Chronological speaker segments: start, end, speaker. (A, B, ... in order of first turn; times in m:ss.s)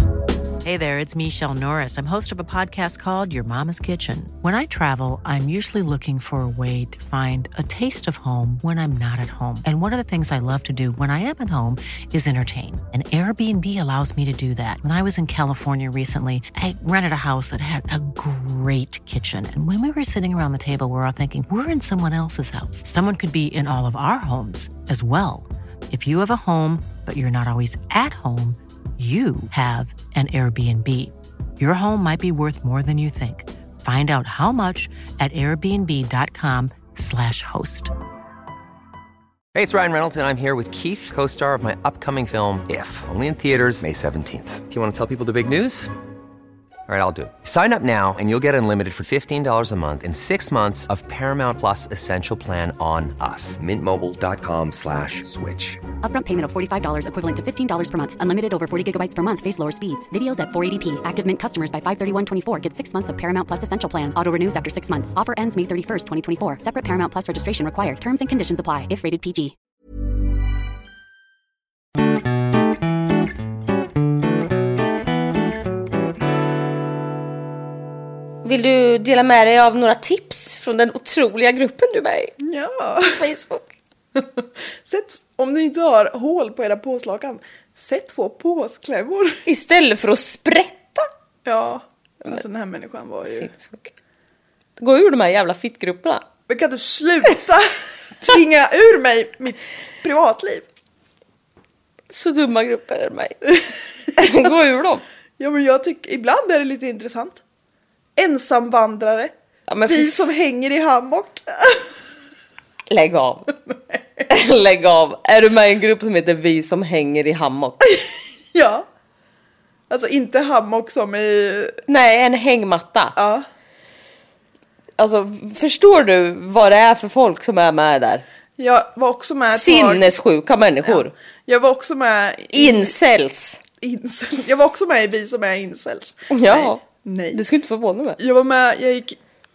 0:00.6-0:37.9 A
0:39.5-0:45.9 B
0:46.9-0:55.8 B
0:56.0-1:09.5 C
1:18.4-1:22.3 D
1:22.4-1:23.2 E
1:23.0-1:23.7 D
1:24.8-1:29.4 E
1:29.4-1:31.1 D
1:31.4-1:33.5 E
1:33.2-1:33.9 D
1:34.8-1:36.2 D
1:36.5-1:40.6 E
1:42.1-1:43.5 D
1:43.5-1:44.2 E
1:44.2-1:45.0 D
1:45.4-1:47.4 E
1:48.2-1:49.3 E
1:49.7-1:50.1 D
1:49.9-1:51.9 E
1:52.9-1:53.5 D
1:53.7-1:54.2 E
1:54.3-1:57.8 D
1:57.8-1:58.8 E
1:59.9-2:01.8 E
2:01.9-2:03.2 D
2:03.2-2:03.4 E
2:05.0-2:08.2 D
2:08.6-2:10.1 E
2:09.5-2:11.1 D
2:10.8-2:12.9 E
2:12.5-2:13.6 D
2:13.8-2:17.4 E
2:16.3-2:16.8 D
2:17.3-2:18.2 D
2:18.2-2:19.2 E